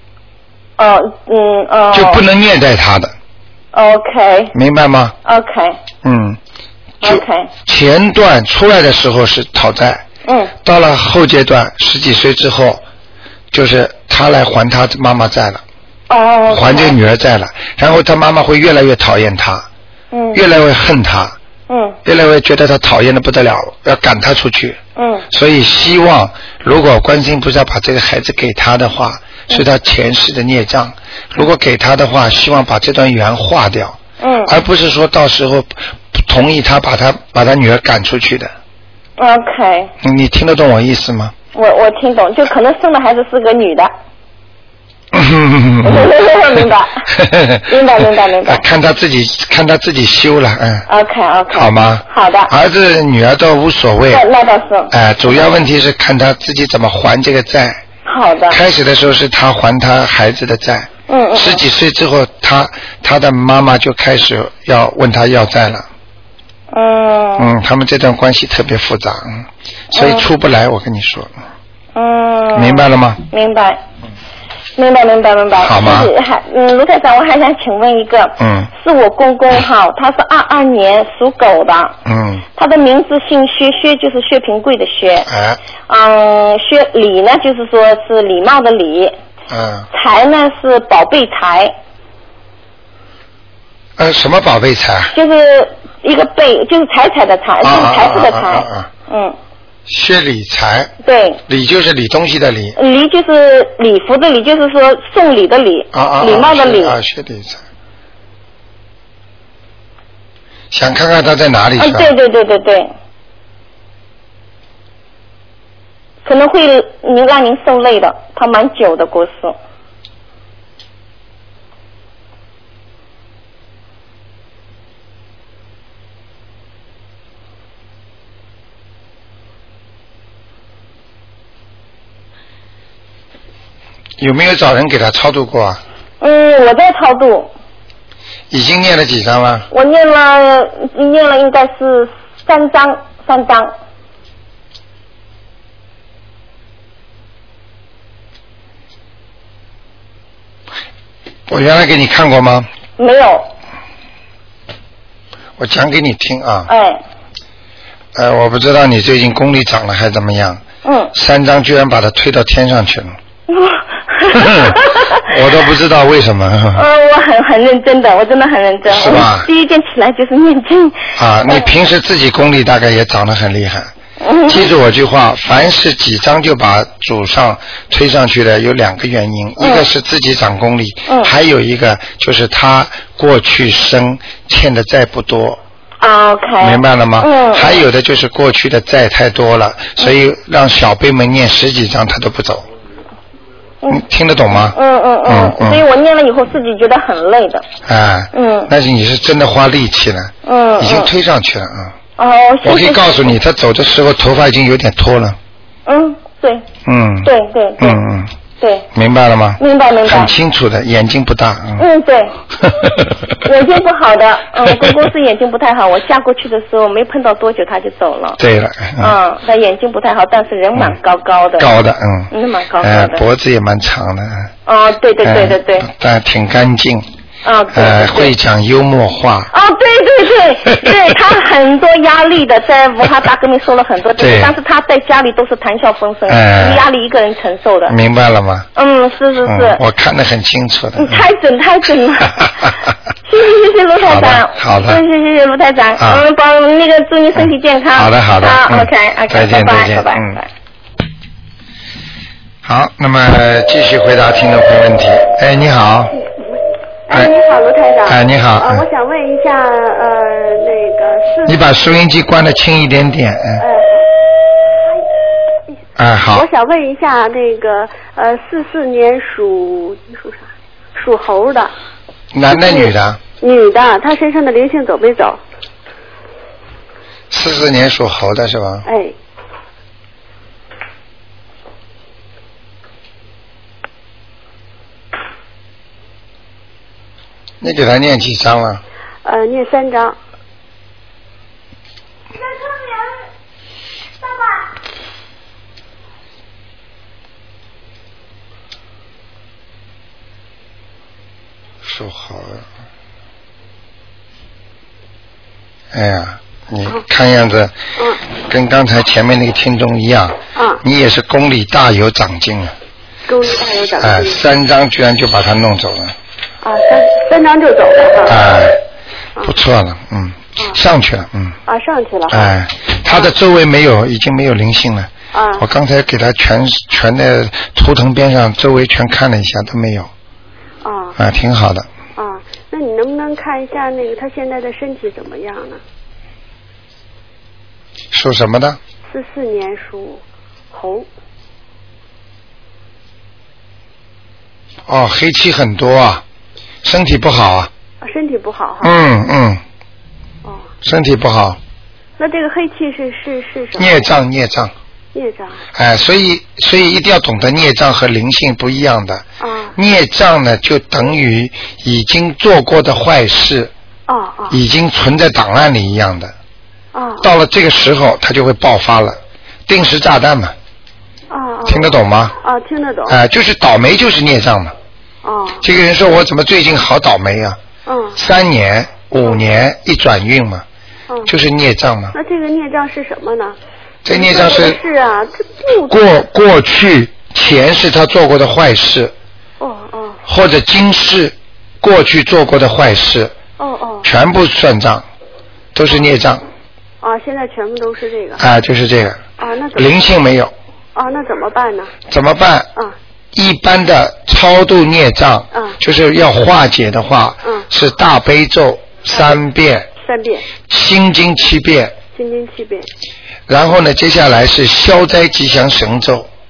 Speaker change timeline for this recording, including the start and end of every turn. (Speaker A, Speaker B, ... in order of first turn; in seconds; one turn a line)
Speaker A: 0.8-2.2
Speaker B: 1.9-3.1
Speaker A: 3.7-4.5
Speaker B: 4.5-5.2
Speaker A: 5.2-5.8
Speaker B: 6.0-6.4
Speaker A: 7.0-7.5
Speaker B: 7.0-10.1
Speaker A: 10.2-10.5
Speaker B: 10.6-12.8
Speaker B: 13.5-15.6
Speaker A: 16.1-17.0
Speaker B: 16.5-19.7
Speaker A: 20.1-20.4
Speaker B: 20.3-21.4
Speaker A: 21.7-22.0
Speaker B: 22.1-24.8
Speaker A: 25.0-25.3
Speaker B: 25.3-38.5
Speaker A: 34.2-34.5
Speaker A: 39.2-39.9
Speaker B: 40.0-41.4
Speaker A: 41.5-43.9
Speaker B: 45.1-46.1
Speaker A: 45.8-47.1
Speaker B: 47.1-50.9
Speaker A: 47.7-48.6
Speaker A: 50.9-52.5
Speaker B: 51.5-54.2
Speaker A: 54.1-55.4
Speaker B: 54.9-57.8
Speaker A: 58.0-58.6
Speaker B: 58.5-65.9
Speaker A: 61.1-61.6
Speaker A: 66.7-67.5
Speaker B: 67.4-71.3
Speaker A: 69.9-70.3
Speaker A: 72.0-73.8
Speaker B: 72.5-73.2
Speaker A: 74.8-82.0
Speaker B: 75.6-76.1
Speaker B: 78.4-78.7
Speaker B: 82.1-82.4
Speaker A: 82.5-85.3
Speaker B: 85.3-85.6
Speaker A: 85.9-89.2
Speaker B: 89.5-89.9
Speaker A: 89.9-91.8
Speaker B: 94.0-95.2
Speaker A: 95.1-99.4
Speaker B: 97.6-98.9
Speaker B: 99.9-100.9
Speaker A: 101.0-101.4
Speaker B: 101.5-102.8
Speaker A: 102.8-107.0
Speaker B: 105.9-107.6
Speaker B: 110.7-112.1
Speaker A: 111.8-112.9
Speaker A: 116.2-119.6
Speaker B: 134.2-135.8
Speaker A: 136.2-137.5
Speaker B: 138.5-139.7
Speaker A: 139.7-143.7
Speaker B: 151.5-152.7
Speaker A: 153.0-153.5
Speaker B: 155.6-156.7
Speaker A: 156.7-157.0
Speaker B: 158.2-160.6
Speaker A: 160.8-161.1
Speaker B: 161.1-163.2
Speaker A: 163.5-165.2
Speaker B: 164.3-166.8
Speaker A: 166.7-171.7
Speaker B: 168.9-169.5
Speaker B: 171.2-173.9
Speaker A: 174.2-174.7
Speaker B: 174.5-185.6
Speaker A: 179.6-179.9
Speaker A: 181.1-181.3
Speaker A: 186.0-187.8
Speaker B: 186.6-192.7
Speaker B: 193.9-195.8
Speaker A: 194.6-197.7
Speaker B: 197.8-202.0
Speaker A: 198.3-198.7
Speaker A: 200.4-201.1
Speaker A: 202.2-203.3
Speaker B: 202.6-205.4
Speaker A: 205.9-206.7
Speaker B: 206.8-208.3
Speaker A: 207.2-208.0
Speaker A: 208.6-208.9
Speaker B: 208.9-211.9
Speaker A: 209.6-210.3
Speaker A: 211.8-212.4
Speaker B: 212.6-213.1
Speaker A: 213.4-218.4
Speaker B: 214.7-215.0
Speaker B: 218.4-219.2
Speaker A: 219.0-221.8
Speaker B: 221.6-224.5
Speaker A: 222.3-223.2
Speaker A: 224.7-225.9
Speaker B: 225.2-227.1
Speaker A: 227.4-228.3
Speaker B: 227.7-229.5
Speaker A: 229.5-238.0
Speaker B: 230.7-231.0
Speaker B: 234.2-234.6
Speaker B: 236.3-236.9
Speaker B: 237.9-238.7
Speaker A: 238.8-239.8
Speaker B: 239.4-241.3
Speaker A: 241.0-242.5
Speaker B: 242.4-242.7
Speaker A: 243.3-250.5
Speaker B: 244.0-245.0
Speaker B: 246.0-246.3
Speaker B: 247.3-250.4
Speaker B: 252.6-256.1
Speaker C: 256.3-261.7
Speaker B: 258.1-258.9
Speaker B: 261.5-263.6
Speaker C: 263.6-263.9
Speaker B: 266.0-266.5
Speaker C: 266.3-271.7
Speaker B: 272.3-273.2
Speaker C: 272.5-275.4
Speaker B: 277.3-278.9
Speaker C: 278.9-279.1
Speaker B: 287.6-288.8
Speaker C: 289.2-290.2
Speaker B: 301.8-302.6
Speaker B: 305.9-307.8
Speaker B: 308.4-312.8
Speaker C: 310.6-310.8
Speaker C: 313.3-314.4
Speaker B: 314.0-316.1
Speaker C: 316.6-318.4
Speaker B: 318.3-318.8
Speaker B: 319.4-321.6
Speaker C: 321.7-322.5
Speaker B: 322.3-330.1
Speaker C: 325.3-325.6
Speaker C: 330.8-331.2
Speaker B: 331.2-331.9
Speaker C: 332.2-335.8
Speaker B: 338.1-338.8
Speaker C: 339.1-341.1
Speaker B: 344.9-346.2
Speaker B: 346.8-347.7
Speaker C: 348.0-348.9
Speaker B: 348.8-349.6
Speaker C: 350.4-350.7
Speaker B: 350.8-351.6
Speaker C: 352.2-354.1
Speaker B: 353.8-354.7
Speaker C: 355.1-355.6
Speaker B: 355.8-359.2
Speaker C: 359.4-359.8
Speaker B: 359.8-363.7
Speaker C: 364.1-364.6
Speaker B: 364.5-366.3
Speaker C: 366.9-367.3
Speaker B: 367.2-370.6
Speaker C: 371.3-373.2
Speaker B: 371.7-372.4
Speaker B: 373.1-374.8
Speaker C: 375.2-375.6
Speaker B: 375.6-377.6
Speaker C: 377.9-378.2
Speaker B: 378.2-380.6
Speaker B: 381.3-382.1
Speaker C: 382.1-383.6
Speaker B: 384.1-384.8
Speaker C: 384.1-386.0
Speaker B: 385.9-389.1
Speaker C: 389.6-390.2
Speaker B: 390.3-393.3
Speaker C: 393.6-394.1
Speaker B: 394.0-395.1
Speaker B: 395.8-396.4
Speaker C: 397.0-398.4
Speaker B: 398.4-399.2
Speaker C: 399.4-399.9
Speaker B: 399.8-400.5
Speaker C: 400.9-401.9
Speaker B: 402.1-402.7
Speaker B: 403.3-409.9
Speaker C: 405.5-405.8
Speaker C: 410.0-410.5
Speaker B: 410.7-412.0
Speaker C: 412.1-412.9
Speaker B: 413.5-416.3